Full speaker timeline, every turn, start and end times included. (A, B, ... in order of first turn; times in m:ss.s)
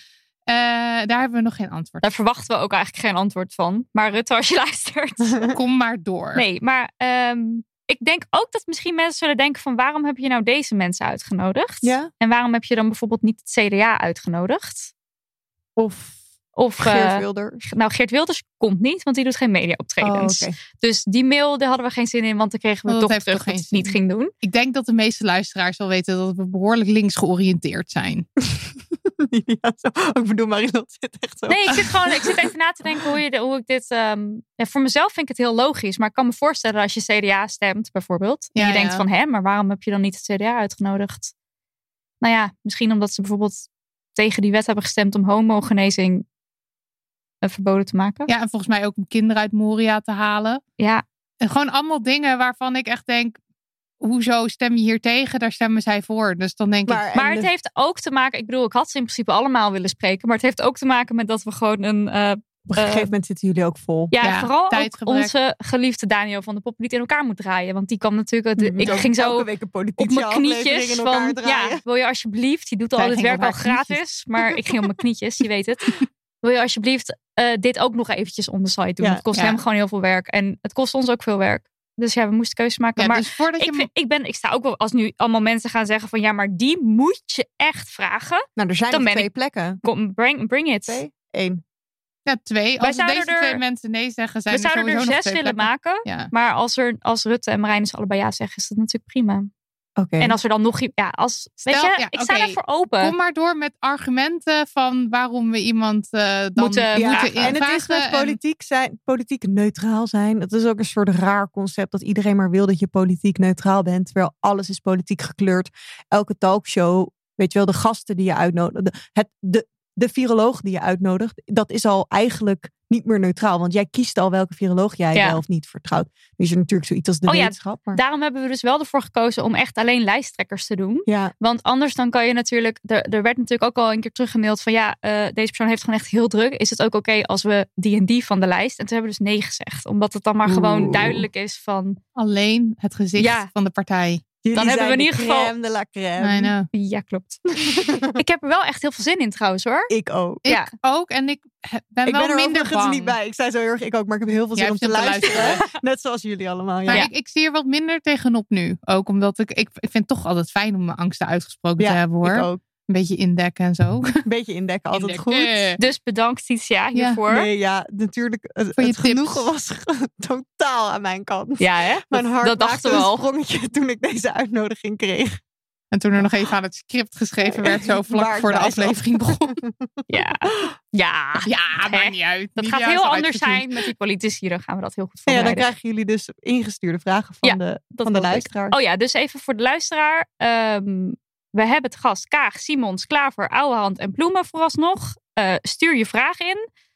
0:00.5-0:02.0 A
0:02.0-0:05.4 B
0:05.2-0:05.6 C
0:05.5-0:06.4 A
0:06.4-0:14.9 B
0:11.8-0:12.1 C
0:15.8-0:16.2 C
0:16.6-0:24.3 B
0:16.8-0:17.7 C
0:20.0-0:20.6 C
0:22.9-0:28.3 A
0:28.4-0:32.5 C
0:31.5-0:41.3 B
0:38.6-0:39.0 A
0:42.2-0:46.2 B
0:47.4-0:48.3 B
0:48.3-0:50.6 A
0:51.4-0:53.4 A
0:54.0-0:57.0 A
0:56.9-0:57.5 C
0:57.2-1:03.1 B
1:02.7-1:04.2 C
1:04.1-1:29.3 B
1:04.2-1:05.3 A
1:08.6-1:11.8 C
1:13.0-1:14.0 A
1:19.4-1:19.6 A
1:23.0-1:23.9 A
1:28.6-1:29.8 C
1:29.8-1:31.0 B
1:30.9-1:31.6 C
1:32.3-1:36.3 A
1:32.8-1:33.6 B
1:34.5-1:39.5 B
1:40.0-1:40.4 C
1:40.2-1:43.1 B
1:41.7-1:48.4 A
1:46.6-1:47.6 B
1:47.0-2:08.0 C
2:05.1-2:05.4 B
2:07.3-2:22.0 B
2:11.1-2:11.3 C
2:20.5-2:21.2 C
2:22.2-2:24.2 A
2:23.2-2:23.5 B
2:24.4-2:26.5 C
2:24.6-2:25.5 B
2:26.2-2:26.7 A
2:26.7-2:29.9 B
2:27.7-2:28.2 C
2:29.9-2:30.4 C
2:30.4-2:33.2 A
2:32.0-2:37.1 C
2:34.6-2:35.6 A
2:36.9-2:44.2 A
2:41.8-2:42.6 C
2:44.2-2:45.7 C
2:44.9-2:45.8 A
2:45.8-2:47.5 B
2:47.3-2:55.4 C
2:48.8-2:49.4 A
2:51.6-2:53.2 B
2:55.9-2:59.6 A
2:57.5-3:00.7 C
3:00.1-3:05.7 B
3:01.5-3:03.7 A
3:05.3-3:08.8 C
3:07.4-3:16.7 B